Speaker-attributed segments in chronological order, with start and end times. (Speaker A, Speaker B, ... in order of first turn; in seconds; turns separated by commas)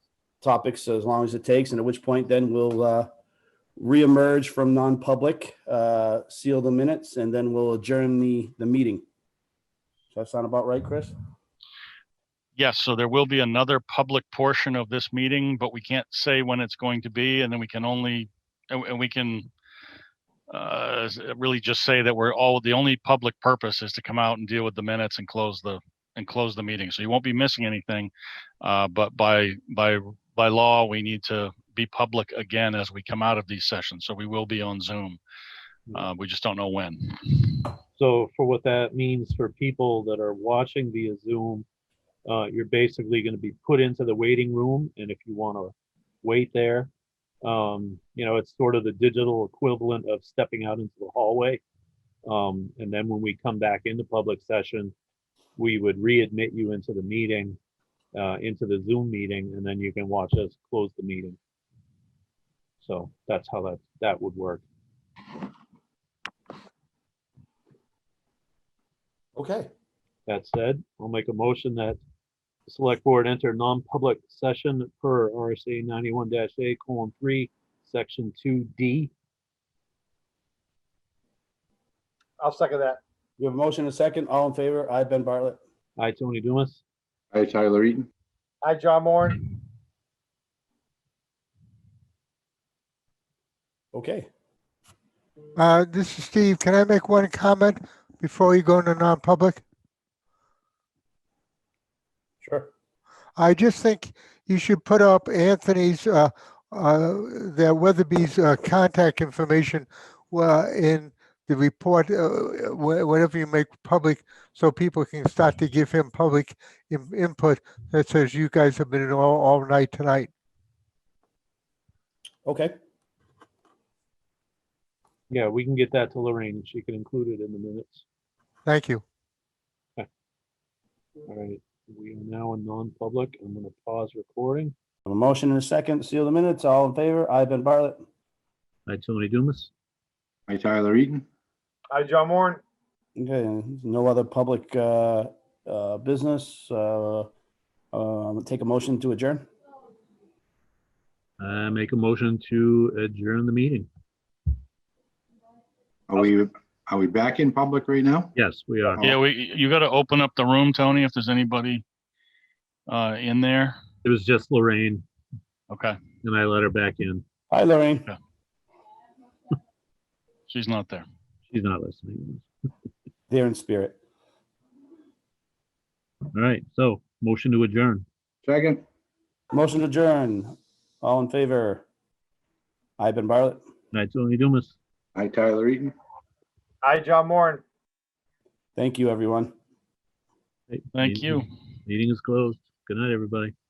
Speaker A: 0.4-3.1, Speaker A: 3.8-9.0, Speaker A: 10.1-11.1, Speaker B: 12.6-19.5, Speaker B: 20.5-35.2, Speaker B: 35.9-37.6, Speaker C: 38.0-41.6, Speaker C: 42.2-46.9, Speaker C: 47.4-51.6, Speaker C: 52.2-54.9, Speaker C: 55.6-57.6, Speaker C: 58.1-61.4, Speaker C: 62.8-64.6, Speaker A: 69.3-69.7, Speaker C: 70.3-72.0, Speaker C: 72.7-79.1, Speaker D: 82.4-83.0, Speaker A: 83.4-85.6, Speaker C: 86.0-86.8, Speaker E: 87.3-88.1, Speaker D: 88.6-89.4, Speaker A: 93.9-94.2, Speaker F: 95.6-99.6, Speaker A: 102.4-102.7, Speaker F: 103.4-120.3, Speaker A: 122.4-122.7, Speaker C: 125.3-128.0, Speaker F: 128.7-129.0, Speaker C: 131.3-134.7, Speaker A: 135.1-138.0, Speaker C: 138.9-139.7, Speaker E: 140.5-141.2, Speaker D: 141.9-142.6, Speaker A: 143.2-147.3, Speaker A: 147.9-149.4, Speaker C: 151.4-153.9, Speaker E: 156.1-158.3, Speaker C: 158.3-159.0, Speaker B: 159.0-161.8, Speaker B: 162.9-163.8, Speaker C: 164.0-165.0, Speaker B: 165.7-166.0, Speaker C: 166.2-167.2, Speaker A: 167.5-168.1, Speaker B: 170.5-171.0, Speaker C: 171.5-172.5, Speaker A: 173.3-174.0, Speaker C: 176.3-178.0, Speaker E: 178.4-178.8, Speaker A: 179.5-181.8, Speaker A: 183.0-183.6, Speaker C: 183.9-184.7, Speaker E: 185.1-185.9, Speaker D: 186.8-187.6, Speaker A: 188.8-189.5, Speaker C: 190.7-193.5, Speaker B: 190.9-191.4